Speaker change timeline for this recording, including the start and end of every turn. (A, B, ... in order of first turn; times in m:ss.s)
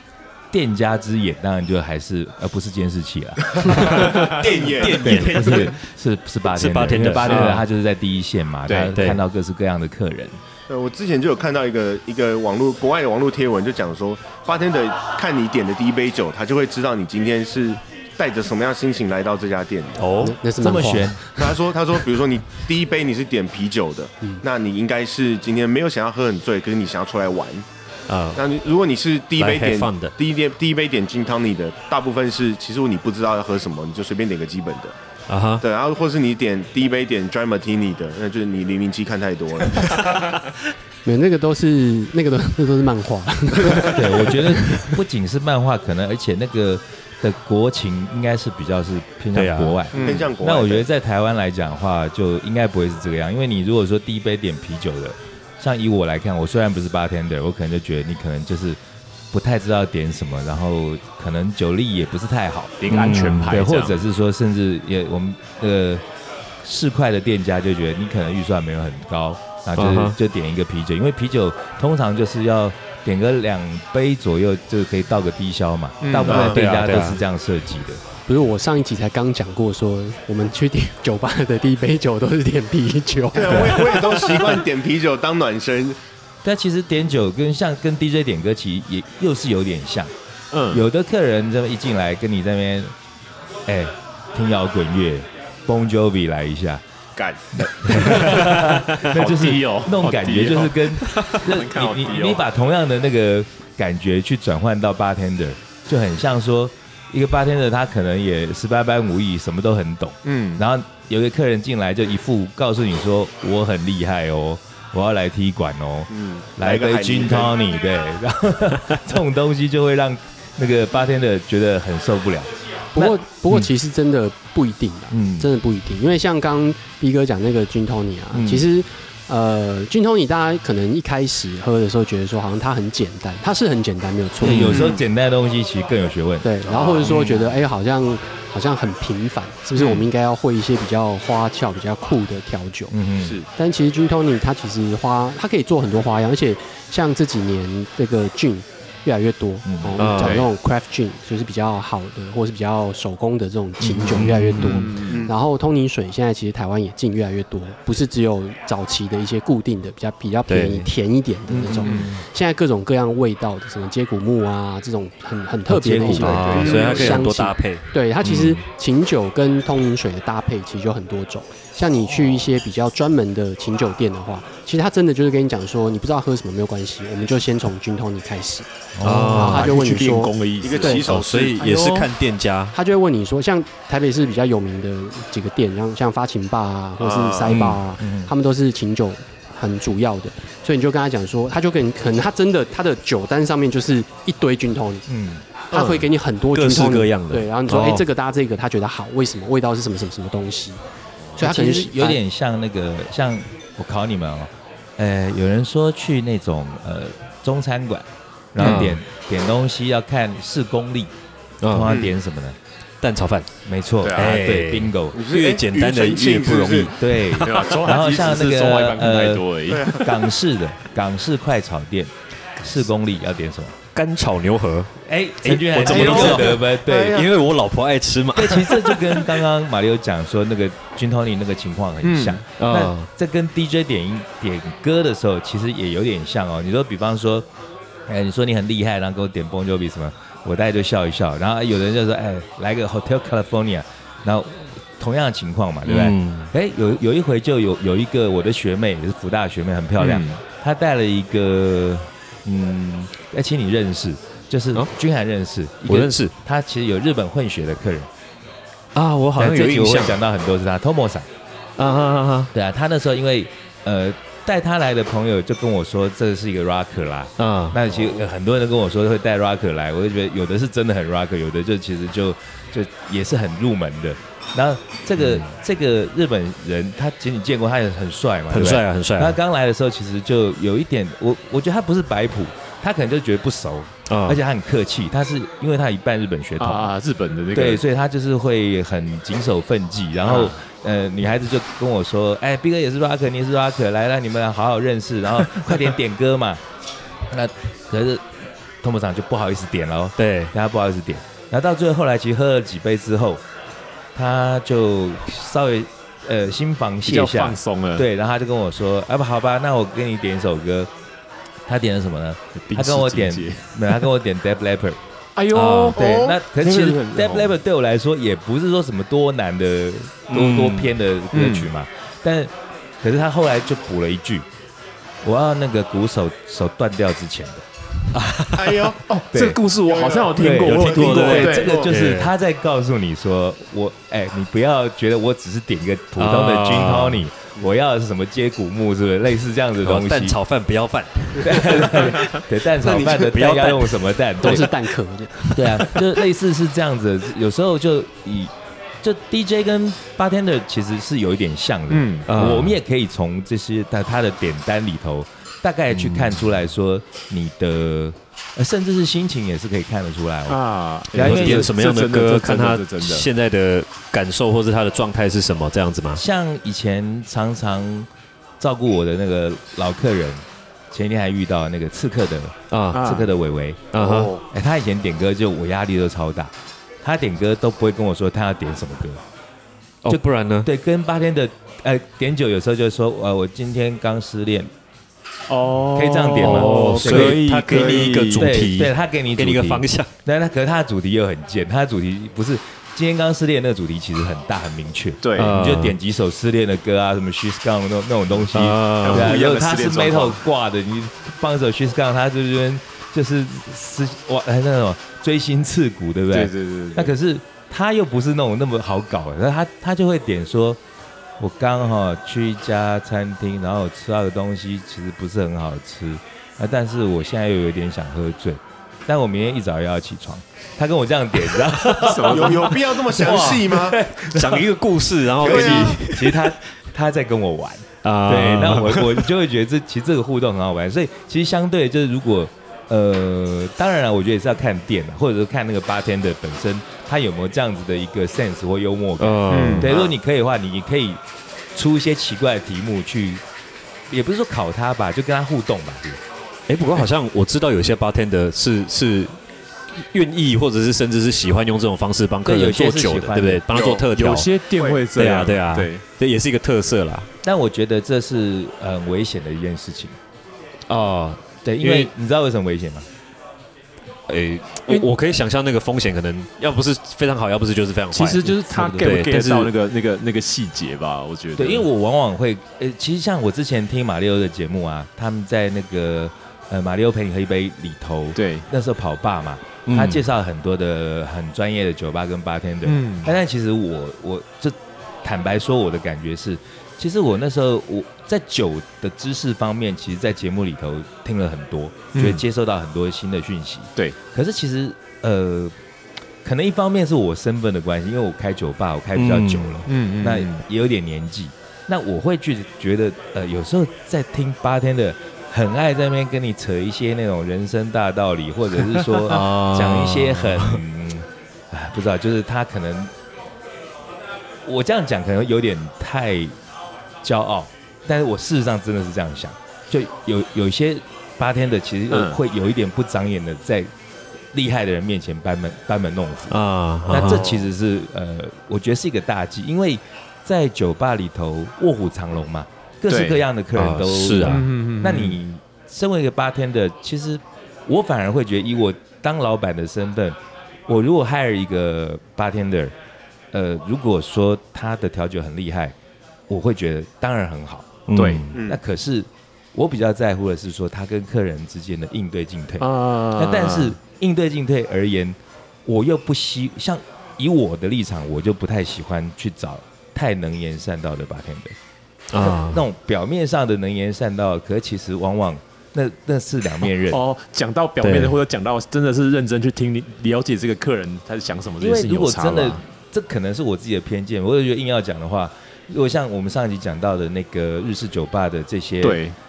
0:00.5-0:10.4 A
0:03.5-0:05.7 B
0:03.9-0:04.4 C
0:04.9-0:05.7 D
0:06.5-0:07.6 D
0:06.9-0:07.6 C
0:08.7-0:09.0 C
0:08.9-0:09.2 D
0:10.7-0:20.1 B
0:20.0-0:20.4 D
0:20.2-0:21.6 E
0:20.6-0:21.2 A
0:21.4-0:27.6 B
0:28.1-0:28.4 D
0:28.3-0:34.9 B
0:29.4-0:30.1 D
0:35.3-0:35.6 D
0:35.6-0:40.2 B
0:41.0-0:44.8 E
0:43.8-0:58.8 A
0:49.3-0:49.8 D
0:49.9-0:50.2 C
0:49.9-0:50.8 B
0:59.3-1:02.8 A
1:02.8-1:04.0 C
1:02.9-1:03.6 D
1:03.5-1:06.0 A
1:06.6-1:18.0 A
1:09.8-1:10.1 D
1:16.0-1:16.5 C
1:16.3-1:16.6 B
1:16.3-1:17.2 D
1:18.3-1:24.4 E
1:23.3-1:26.0 B
1:26.4-1:30.1 A
1:30.5-1:30.8 C
1:30.7-1:32.9 A
1:33.6-1:36.8 A
1:37.5-2:03.2 A
1:37.9-1:42.4 C
1:50.2-1:50.6 C
1:56.1-1:57.5 B
2:02.9-2:14.8 E
2:05.1-2:05.5 A
2:08.3-2:08.7 A
2:14.4-2:16.5 A
2:14.4-2:14.8 D
2:14.7-2:15.0 B
2:16.4-2:22.9 E
2:16.6-2:17.2 B
2:17.1-2:17.3 C
2:22.9-2:23.4 A
2:23.2-2:23.5 B
2:23.5-2:58.7 E
2:29.6-2:29.9 A
2:30.0-2:30.4 D
2:30.0-2:30.5 C
2:33.8-2:34.8 A
2:34.1-2:34.9 D
2:34.6-2:35.2 C
2:35.0-2:35.3 B
2:40.5-2:40.9 D
2:41.5-2:42.2 A
2:41.8-2:42.1 C
2:45.7-2:46.5 A
2:46.1-2:48.6 D
2:46.6-2:47.2 C
2:46.7-2:47.1 B
2:59.0-2:59.6 A
2:59.0-2:59.7 D
2:59.3-3:01.1 E
2:59.4-3:02.1 C
3:00.6-3:01.7 B
3:01.0-3:02.7 D
3:02.7-3:15.0 E
3:07.0-3:07.6 B
3:07.5-3:07.8 D
3:08.0-3:08.3 A
3:15.1-3:15.4 A
3:15.7-3:20.8 E
3:15.7-3:16.1 C
3:16.5-3:18.0 D
3:21.4-3:31.1 A
3:21.4-3:22.2 E
3:28.6-3:29.0 D
3:31.6-3:31.9 D
3:31.7-3:32.6 A
3:31.9-3:32.1 C
3:33.0-3:33.5 D
3:33.6-3:35.2 A
3:34.0-3:34.4 C
3:34.1-3:36.9 D
3:35.1-3:37.0 B
3:36.9-3:39.4 A
3:37.4-3:40.0 C
3:39.7-3:40.2 B
3:40.0-3:43.8 A
3:43.9-3:44.9 D
3:45.0-3:47.2 A
3:45.4-3:49.2 D
3:45.8-3:47.3 B
3:48.3-3:57.5 A
3:52.0-3:52.4 C
3:52.6-3:53.1 D
3:58.1-4:18.1 A
4:05.8-4:06.5 D
4:10.0-4:10.4 C
4:15.9-4:16.3 D
4:18.9-4:20.2 D
4:19.4-4:21.3 A
4:21.8-4:22.5 D
4:22.5-4:46.9 A
4:27.4-4:27.8 D
4:38.5-4:39.4 D
4:44.1-4:44.4 D
4:46.6-4:47.8 C
4:47.5-4:56.6 A
4:50.2-4:50.5 C
4:57.3-4:58.2 A
4:58.8-5:03.4 A
5:00.2-5:00.5 D
5:04.1-5:10.9 A
5:07.0-5:08.0 C
5:11.7-5:15.0 A
5:12.7-5:14.0 C
5:15.4-5:17.6 C
5:15.5-5:16.0 D
5:16.0-5:16.3 B
5:16.0-5:24.4 A
5:20.3-5:20.9 D
5:21.3-5:21.7 C
5:25.2-5:27.6 A
5:28.1-5:28.8 D
5:28.5-5:29.0 B
5:29.0-5:31.8 C
5:29.3-5:29.6 A
5:29.9-5:31.9 B
5:30.3-5:40.4 A
5:30.7-5:32.3 D
5:36.2-5:37.2 D
5:39.8-5:42.4 D
5:41.4-5:44.7 A
5:42.9-5:44.0 D
5:44.4-5:46.0 E
5:45.5-6:00.6 A
5:51.9-5:52.3 C
5:52.3-5:52.8 D
5:55.9-5:56.4 D
6:00.5-6:03.3 C
6:01.1-6:01.7 A
6:01.2-6:06.2 D
6:06.1-6:08.1 A
6:08.6-6:13.9 A
6:12.7-6:13.0 D
6:12.9-6:13.3 C
6:13.9-6:14.4 D
6:13.9-6:14.4 B
6:14.5-6:19.2 A
6:20.0-6:20.7 D
6:20.1-6:24.7 A
6:25.5-6:28.6 C
6:25.9-6:50.8 A
6:26.4-6:30.1 D
6:35.2-6:35.6 C
6:35.4-6:36.0 D
6:38.5-6:39.3 D
6:39.0-6:40.4 C
6:46.3-6:47.1 C
6:51.4-7:04.7 A
7:01.9-7:02.7 C
7:02.2-7:04.0 B
7:03.2-7:03.6 D
7:04.2-7:06.6 D
7:05.4-7:21.2 A
7:05.4-7:06.0 B
7:08.0-7:09.3 D
7:19.2-7:19.9 D
7:19.5-7:19.9 C
7:19.8-7:20.1 B
7:21.7-7:23.4 A
7:24.1-7:26.2 A
7:26.7-7:29.3 D
7:29.9-7:34.5 D
7:32.4-7:33.6 A
7:33.7-7:34.1 B
7:34.1-7:36.0 C
7:34.8-7:35.0 B
7:35.1-7:37.3 D
7:37.4-7:40.2 A
7:40.9-7:42.1 D
7:41.6-7:43.1 A
7:44.3-7:49.7 D
7:48.1-7:51.8 C
7:48.7-7:49.1 A
7:51.6-8:15.7 A
7:58.4-7:58.7 C
7:59.8-8:00.2 D
8:02.8-8:03.3 C
8:12.1-8:12.4 C
8:16.4-8:33.1 A
8:19.1-8:19.8 D
8:19.9-8:20.6 C
8:29.2-8:30.8 D
8:34.6-8:36.5 A
8:37.2-8:43.9 A
8:42.1-8:42.4 C
8:44.5-9:02.9 A
8:46.5-8:47.5 D
8:47.1-8:47.7 C
8:53.1-8:53.4 C
8:53.8-8:54.7 D
8:54.4-8:55.4 C
9:03.5-9:05.9 A
9:06.5-9:08.0 A
9:08.1-9:08.6 D
9:08.1-9:08.5 C
9:08.5-9:08.8 B
9:08.5-9:21.8 A
9:12.8-9:14.0 C
9:22.3-9:22.8 D
9:22.4-9:27.2 A
9:27.0-9:32.8 C
9:28.0-9:28.4 D
9:31.8-9:39.2 A
9:39.0-9:39.4 C